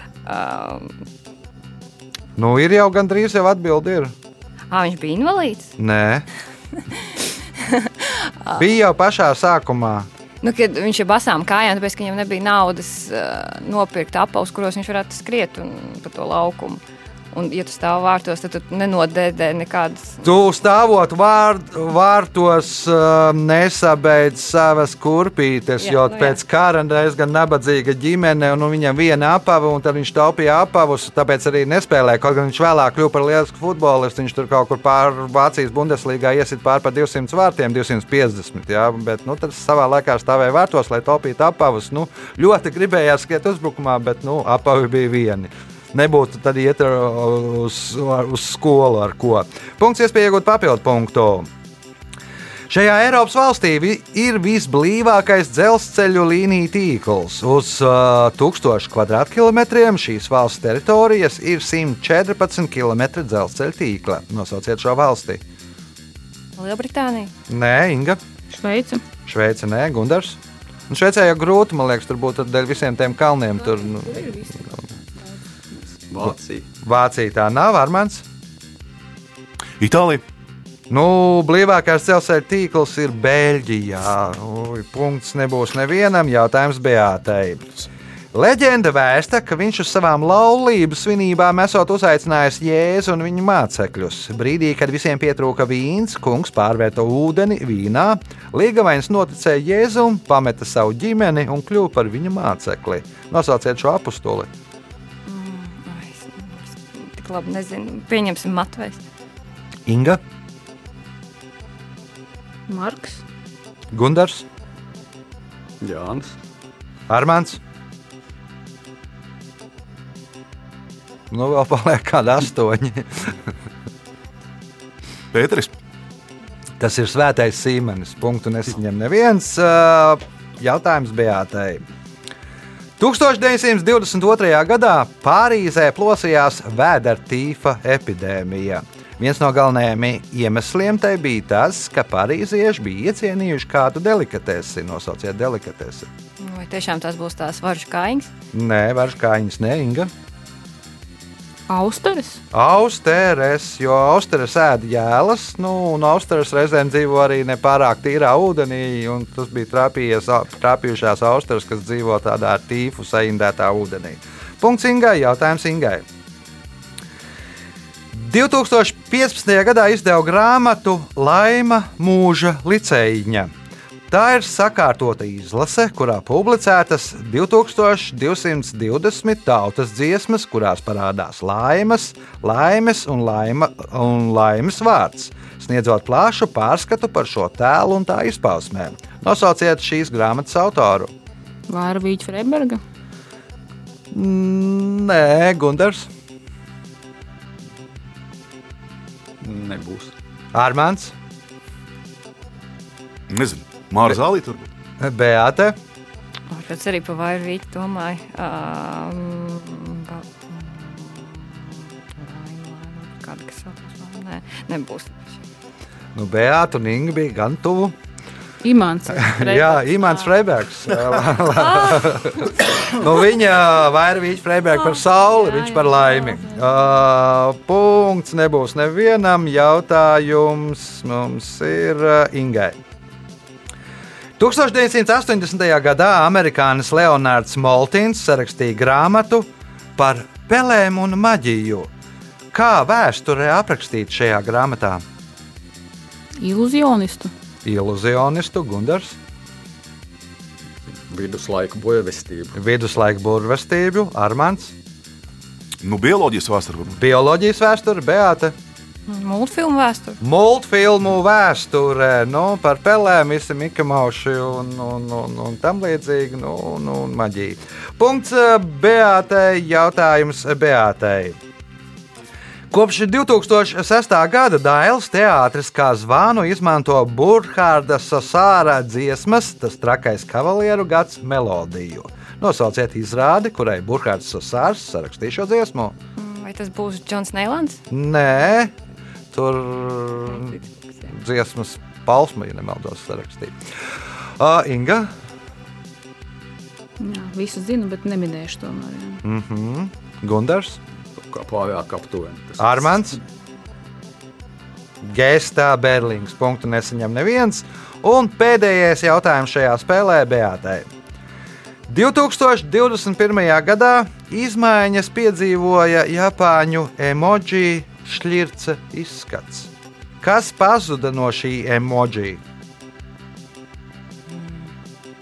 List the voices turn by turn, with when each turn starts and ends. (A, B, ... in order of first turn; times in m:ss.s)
0:00.2-0:00.9 A
0:02.4-0:04.1 B
0:04.7-0:05.7 A
0:05.8-0:06.2 B
0:06.9-0:08.6 A
0:08.6-0:10.1 B
0:10.4-0:16.8 A
0:17.3-0:20.2 A
0:20.2-0:51.5 B
0:25.8-0:26.4 A
0:52.7-1:05.4 B
1:06.5-1:07.3 A
1:07.5-1:08.2 B
1:08.5-1:09.0 C
1:09.2-1:10.4 B
1:10.9-1:14.8 B
1:14.1-1:14.6 C
1:16.1-1:16.7 D
1:16.8-1:18.2 B
1:19.8-1:20.2 E
1:20.9-1:27.6 B
1:28.3-1:44.5 B
1:45.2-1:49.0 A
1:49.9-1:50.2 B
1:52.7-1:53.2 C
1:53.9-1:54.4 B
1:55.8-1:56.3 D
1:57.1-1:57.6 B
2:01.3-2:03.3 B
2:05.3-2:05.7 E
2:06.8-2:11.8 B
2:13.0-2:26.1 B
2:26.4-2:28.3 A
2:28.5-2:30.1 B
2:31.7-2:32.4 C
2:32.5-2:46.0 B
2:48.1-2:53.5 B
2:54.1-3:11.1 B
3:11.7-3:12.8 C
3:14.1-3:16.1 B
3:19.4-3:20.1 D
3:20.5-3:21.1 B
3:23.3-3:24.7 E
3:25.0-3:25.8 B
3:26.5-3:35.4 A
3:36.1-3:37.9 B
3:38.6-3:39.8 C
3:39.1-3:52.8 B
3:41.7-3:42.2 A
3:45.4-3:46.6 A
3:54.4-4:01.9 B
4:02.5-4:05.0 B
4:06.4-4:07.3 C
4:07.6-4:09.2 B
4:10.8-4:12.6 D
4:12.5-4:14.7 B
4:15.8-4:17.0 E
4:16.9-4:18.5 B
4:19.1-4:20.2 A
4:20.2-4:31.4 B
4:32.7-4:45.9 B
4:46.2-4:47.8 A
4:47.9-4:48.7 B
4:49.3-4:50.5 B
4:50.3-4:51.1 A
4:51.1-4:53.5 B
4:54.4-4:55.1 B
4:57.0-4:59.2 C
4:59.2-5:00.8 B
5:01.1-5:03.2 D
5:02.6-5:03.2 B
5:05.0-5:10.9 B
5:11.9-5:19.7 B
5:20.2-5:22.4 B
5:24.3-5:24.7 A